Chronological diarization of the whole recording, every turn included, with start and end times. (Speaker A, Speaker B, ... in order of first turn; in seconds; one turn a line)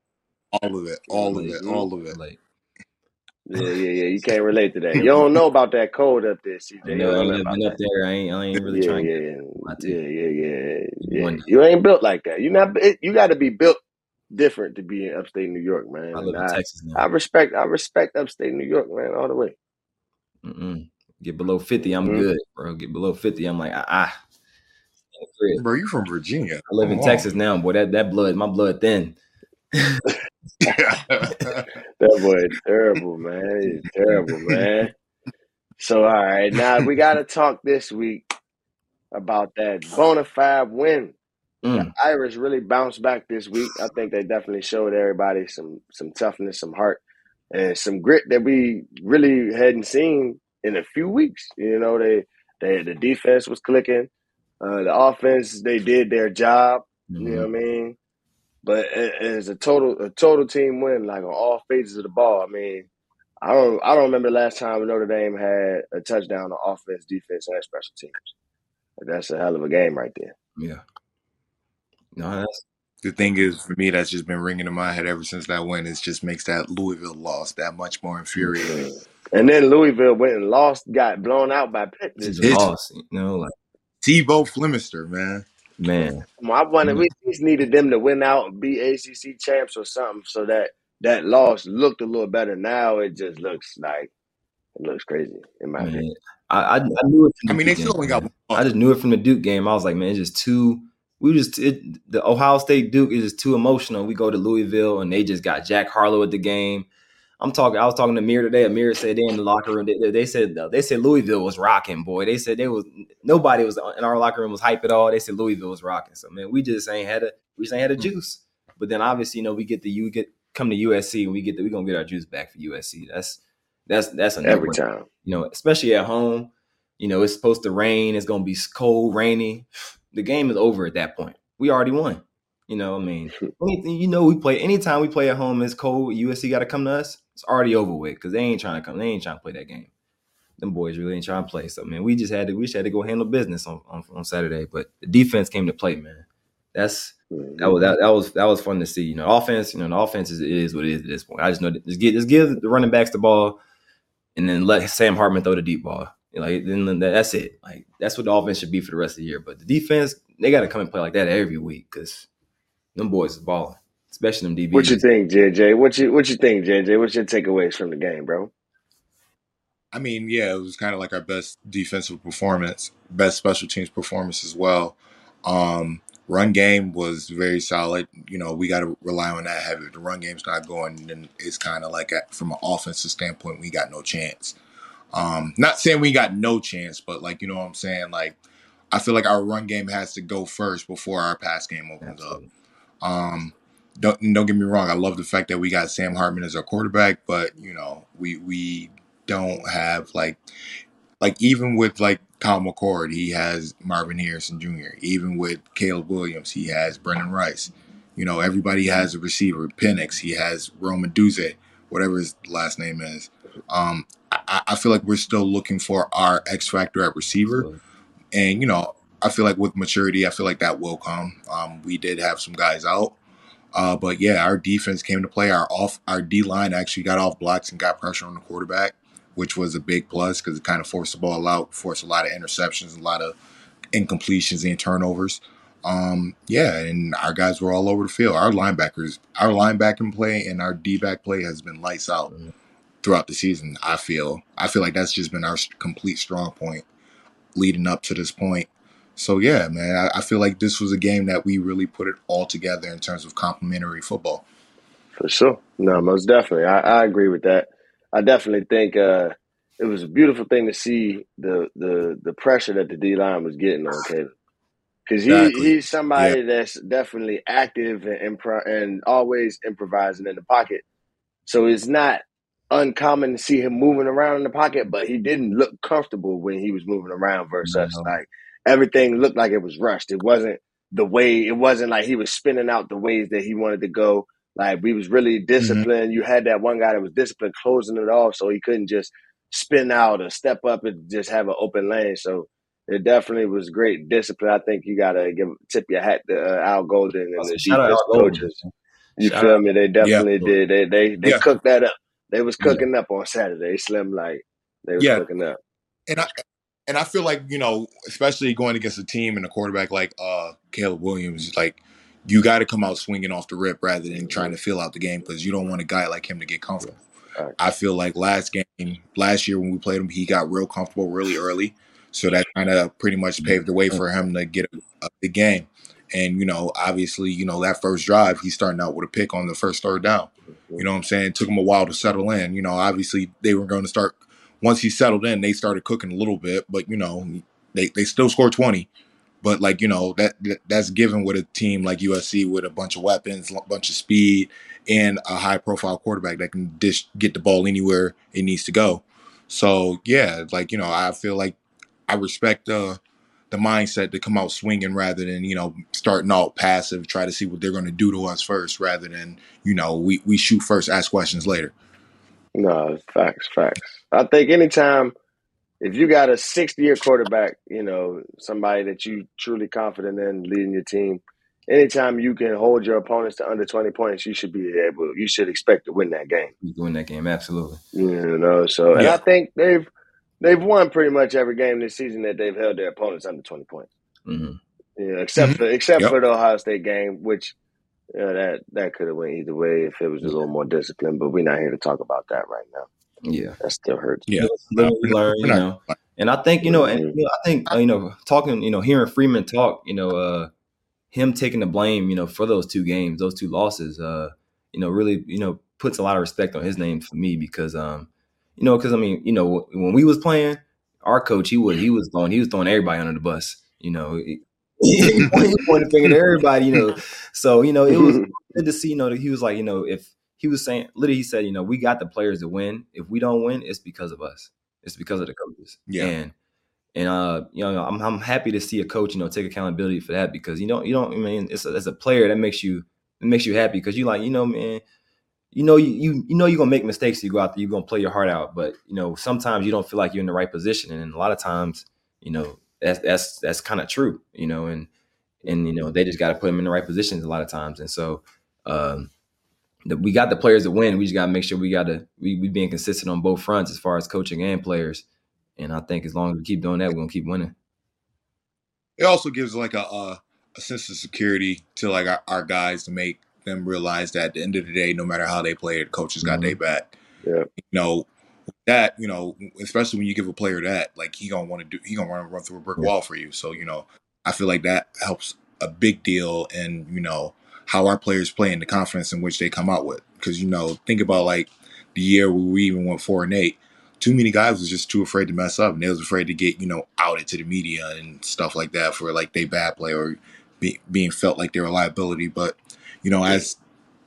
Speaker A: 0.5-2.2
Speaker B: 1.1-2.4
Speaker C: 3.5-7.8
Speaker A: 5.0-5.3
Speaker B: 6.8-9.1
Speaker C: 8.7-13.8
Speaker B: 9.6-10.0
Speaker B: 11.0-11.5
Speaker C: 14.3-19.6
Speaker B: 16.1-17.0
Speaker B: 20.4-24.1
Speaker B: 25.1-25.6
Speaker A: 25.6-27.3
Speaker B: 26.7-29.2
Speaker B: 29.7-30.1
Speaker A: 30.6-31.7
Speaker C: 32.0-34.9
Speaker C: 35.8-38.2
Speaker C: 39.1-41.1
Speaker B: 41.6-41.9
Speaker C: 41.7-47.0
Speaker C: 47.5-54.1
Speaker C: 54.6-58.0
Speaker B: 57.1-57.5
Speaker C: 58.6-62.9
Speaker C: 63.4-68.3
Speaker C: 69.0-70.3
Speaker B: 70.6-70.8
Speaker B: 72.1-72.6
Speaker A: 73.0-78.8
Speaker C: 78.6-82.6
Speaker B: 82.2-83.5
Speaker A: 82.4-82.7
Speaker A: 84.0-85.5
Speaker B: 85.8-86.2
Speaker C: 86.4-94.1
Speaker C: 94.8-96.0
Speaker B: 95.8-106.9
Speaker A: 97.5-98.7
Speaker B: 107.4-139.9
Speaker C: 124.4-125.0
Speaker B: 140.6-153.6
Speaker C: 147.3-147.8
Speaker B: 154.3-162.3
Speaker B: 162.9-165.0
Speaker C: 164.7-168.5
Speaker A: 169.9-184.6
Speaker A: 185.1-188.4
Speaker A: 188.9-192.4
Speaker B: 192.0-192.5
Speaker A: 193.0-200.4
Speaker A: 201.2-217.7
Speaker B: 217.5-217.8
Speaker A: 218.3-223.2
Speaker A: 223.7-233.3
Speaker A: 233.9-242.3
Speaker A: 243.0-246.8
Speaker A: 247.5-254.4
Speaker C: 255.2-264.3
Speaker C: 265.1-270.8
Speaker A: 265.3-266.4
Speaker C: 271.4-298.6
Speaker B: 277.6-278.1
Speaker A: 285.6-285.9
Speaker B: 297.4-299.6
Speaker C: 299.2-305.6
Speaker A: 300.0-300.3
Speaker A: 305.0-305.2
Speaker A: 306.1-306.3
Speaker A: 306.9-317.0
Speaker C: 314.1-314.5
Speaker A: 317.6-338.9
Speaker B: 323.4-324.0
Speaker A: 339.4-351.6
Speaker A: 352.1-353.0
Speaker A: 353.5-361.7
Speaker C: 362.5-365.1
Speaker C: 365.8-376.5
Speaker B: 376.6-377.8
Speaker C: 377.9-379.9
Speaker A: 378.9-379.2
Speaker C: 380.4-383.9
Speaker B: 384.2-384.6
Speaker C: 385.0-387.5
Speaker A: 385.4-386.1
Speaker C: 388.1-392.9
Speaker B: 393.2-393.5
Speaker C: 393.6-394.3
Speaker A: 394.3-395.9
Speaker B: 394.4-400.5
Speaker C: 396.6-397.1
Speaker B: 401.1-426.3
Speaker C: 417.9-418.3
Speaker A: 425.9-426.1
Speaker B: 426.9-434.8
Speaker B: 435.5-444.9
Speaker B: 445.4-449.1
Speaker B: 449.9-455.0
Speaker B: 455.6-457.5
Speaker A: 459.0-466.9
Speaker B: 466.2-466.6
Speaker C: 467.2-467.5
Speaker A: 467.6-468.1
Speaker A: 468.6-493.6